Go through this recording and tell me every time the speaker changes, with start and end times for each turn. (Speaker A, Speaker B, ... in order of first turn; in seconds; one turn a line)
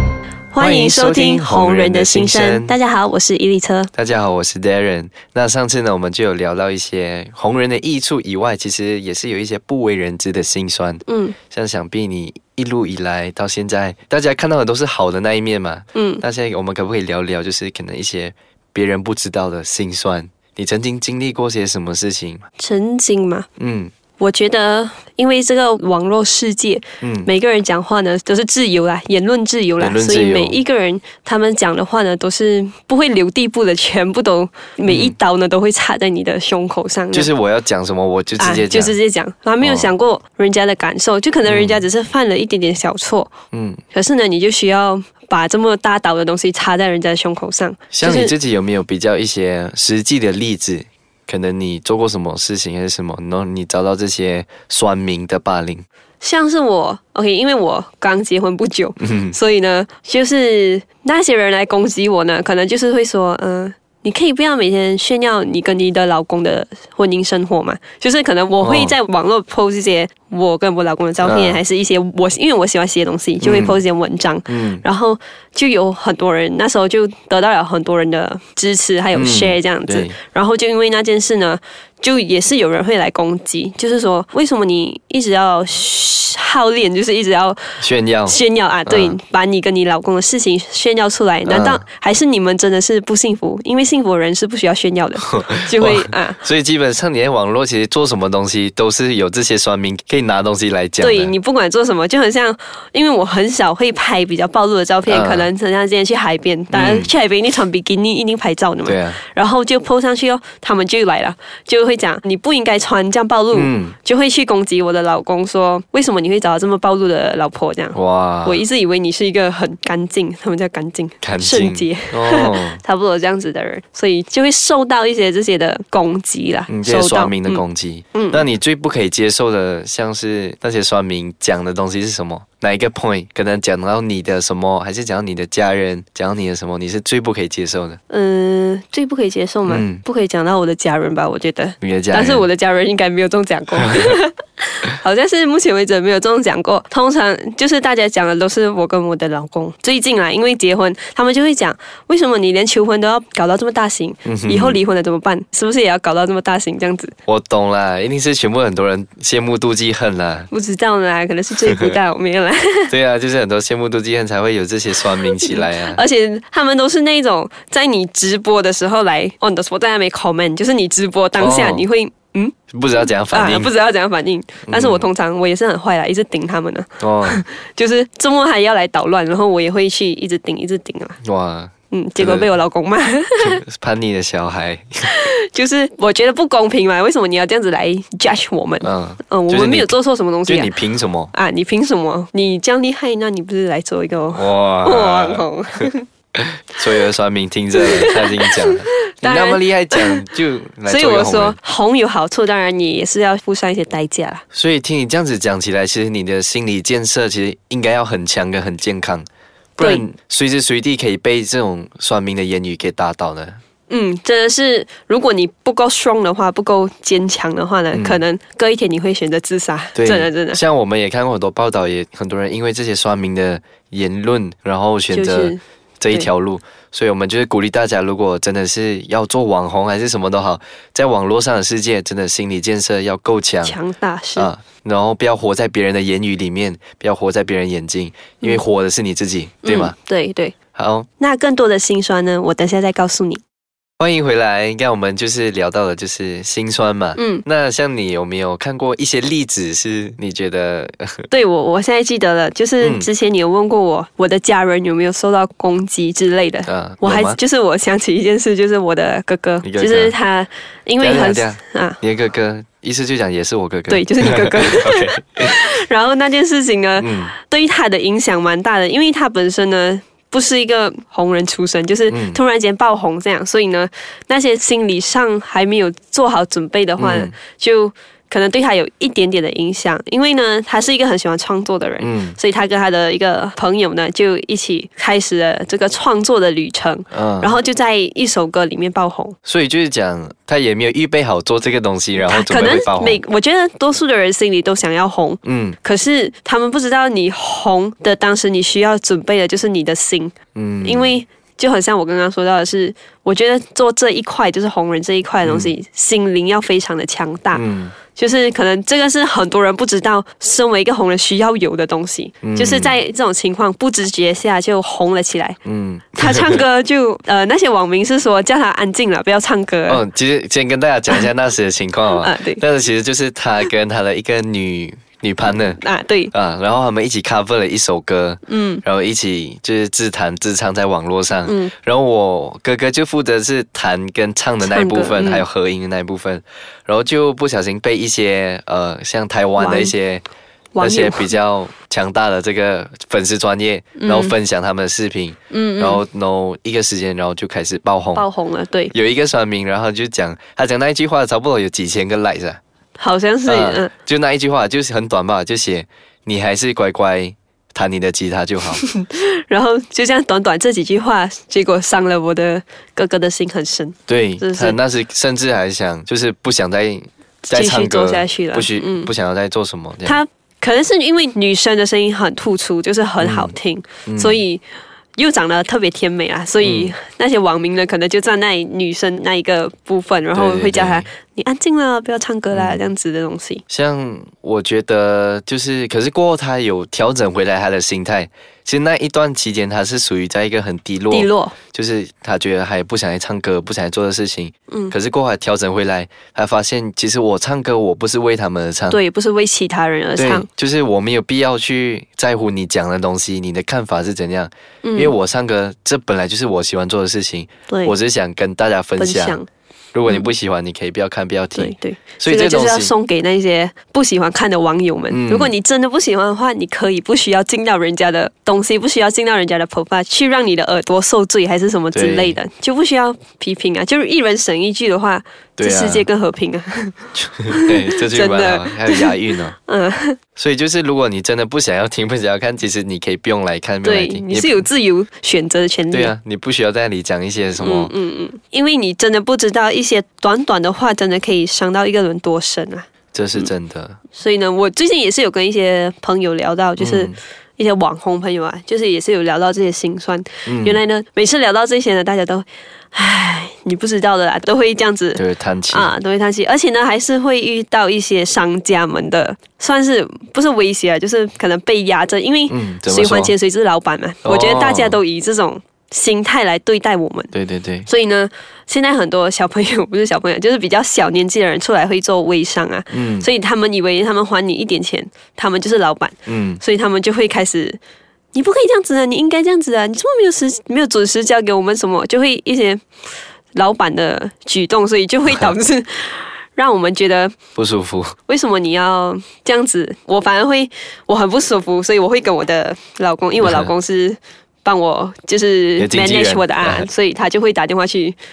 Speaker A: 0.5-3.9
Speaker B: 0.6-2.7
Speaker B: 3.9-22.4
Speaker A: 11.1-11.3
Speaker A: 15.9-16.2
Speaker A: 22.6-23.5
Speaker B: 23.6-23.9
Speaker A: 24.2-37.3
Speaker B: 27.0-27.3
Speaker B: 29.8-30.6
Speaker B: 34.9-35.1
Speaker B: 37.1-38.9
Speaker A: 38.4-43.3
Speaker B: 39.6-39.9
Speaker B: 41.5-41.8
Speaker B: 43.5-43.8
Speaker A: 43.9-48.3
Speaker B: 47.9-55.8
Speaker A: 56.2-87.7
Speaker B: 59.0-59.4
Speaker B: 68.6-68.9
Speaker B: 71.2-71.6
Speaker B: 73.4-73.8
Speaker B: 74.5-74.8
Speaker B: 79.1-80.2
Speaker B: 87.8-89.2
Speaker A: 88.3-96.4
Speaker B: 91.5-91.8
Speaker B: 95.4-101.3
Speaker A: 101.0-127.6
Speaker B: 105.1-105.5
Speaker B: 106.7-107.1
Speaker B: 108.8-109.2
Speaker B: 113.5-114.0
Speaker B: 117.9-118.6
Speaker B: 121.2-122.8
Speaker B: 126.7-138.0
Speaker A: 128.1-128.4
Speaker A: 138.1-157.1
Speaker B: 139.7-140.0
Speaker B: 141.8-142.4
Speaker B: 154.2-154.8
Speaker B: 157.3-160.5
Speaker A: 160.5-162.9
Speaker B: 162.9-166.0
Speaker A: 165.1-172.5
Speaker B: 171.4-171.8
Speaker B: 172.7-173.7
Speaker A: 173.3-181.2
Speaker B: 174.7-175.1
Speaker B: 177.0-177.4
Speaker B: 181.2-182.5
Speaker A: 181.9-183.6
Speaker B: 183.4-185.1
Speaker A: 185.1-190.7
Speaker B: 188.8-189.9
Speaker B: 190.5-191.3
Speaker A: 191.3-196.1
Speaker B: 194.3-195.4
Speaker B: 196.3-201.6
Speaker A: 197.8-200.2
Speaker A: 200.9-204.4
Speaker B: 204.5-209.2
Speaker B: 209.8-213.6
Speaker A: 209.8-210.0
Speaker A: 213.9-220.6
Speaker B: 217.9-218.2
Speaker B: 219.9-233.8
Speaker A: 225.1-226.3
Speaker A: 233.6-234.5
Speaker B: 234.3-239.9
Speaker A: 239.6-240.5
Speaker B: 240.7-241.1
Speaker A: 241.2-243.4
Speaker B: 244.0-251.3
Speaker A: 247.2-247.4
Speaker A: 251.3-262.0
Speaker B: 252.8-253.1
Speaker B: 256.7-257.4
Speaker B: 259.6-260.1
Speaker B: 261.0-265.5
Speaker A: 263.9-289.4
Speaker B: 267.0-267.3
Speaker B: 272.1-272.4
Speaker B: 277.0-277.3
Speaker B: 282.0-282.4
Speaker B: 287.1-287.5
Speaker B: 289.4-293.2
Speaker A: 292.2-315.6
Speaker B: 295.4-295.8
Speaker B: 300.5-301.1
Speaker B: 305.4-305.7
Speaker B: 307.5-307.9
Speaker B: 312.4-312.9
Speaker B: 315.6-316.6
Speaker A: 316.1-320.0
Speaker B: 319.9-325.8
Speaker A: 322.1-322.6
Speaker A: 325.8-326.3
Speaker B: 326.3-340.2
Speaker A: 328.5-328.8
Speaker A: 331.5-331.7
Speaker A: 334.6-335.4
Speaker A: 339.6-339.9
Speaker A: 340.7-341.3
Speaker B: 340.8-348.2
Speaker A: 344.0-344.3
Speaker A: 345.5-346.0
Speaker A: 348.1-348.9
Speaker B: 348.9-352.6
Speaker A: 353.0-353.9
Speaker B: 353.4-358.8
Speaker A: 358.7-364.8
Speaker B: 364.1-370.2
Speaker A: 367.4-369.1
Speaker A: 370.0-374.6
Speaker B: 373.2-373.5
Speaker B: 374.1-374.4
Speaker A: 375.1-383.6
Speaker B: 376.6-376.9
Speaker B: 380.3-381.1
Speaker B: 382.5-382.8
Speaker B: 383.7-399.0
Speaker A: 391.1-391.6
Speaker A: 398.9-400.5
Speaker B: 400.2-409.4
Speaker A: 404.8-405.1
Speaker A: 407.7-407.9
Speaker A: 409.0-409.5
Speaker B: 409.9-412.9
Speaker A: 411.6-426.9
Speaker B: 415.1-415.5
Speaker B: 421.9-422.4
Speaker B: 425.6-426.1
Speaker B: 427.1-429.5
Speaker A: 427.5-430.2
Speaker B: 430.4-434.7
Speaker A: 433.8-436.1
Speaker B: 435.9-437.9
Speaker A: 437.6-443.5
Speaker B: 443.1-444.0
Speaker A: 444.1-467.3
Speaker B: 446.8-447.1
Speaker B: 450.4-450.8
Speaker B: 455.1-455.9
Speaker B: 462.5-463.3
Speaker B: 464.2-465.0
Speaker B: 467.3-467.9
Speaker A: 467.9-477.8
Speaker B: 472.9-473.3
Speaker B: 476.3-476.6
Speaker A: 478.3-482.8
Speaker A: 483.5-487.3
Speaker B: 485.3-485.5
Speaker B: 487.6-488.1
Speaker A: 488.3-498.1
Speaker B: 495.8-496.9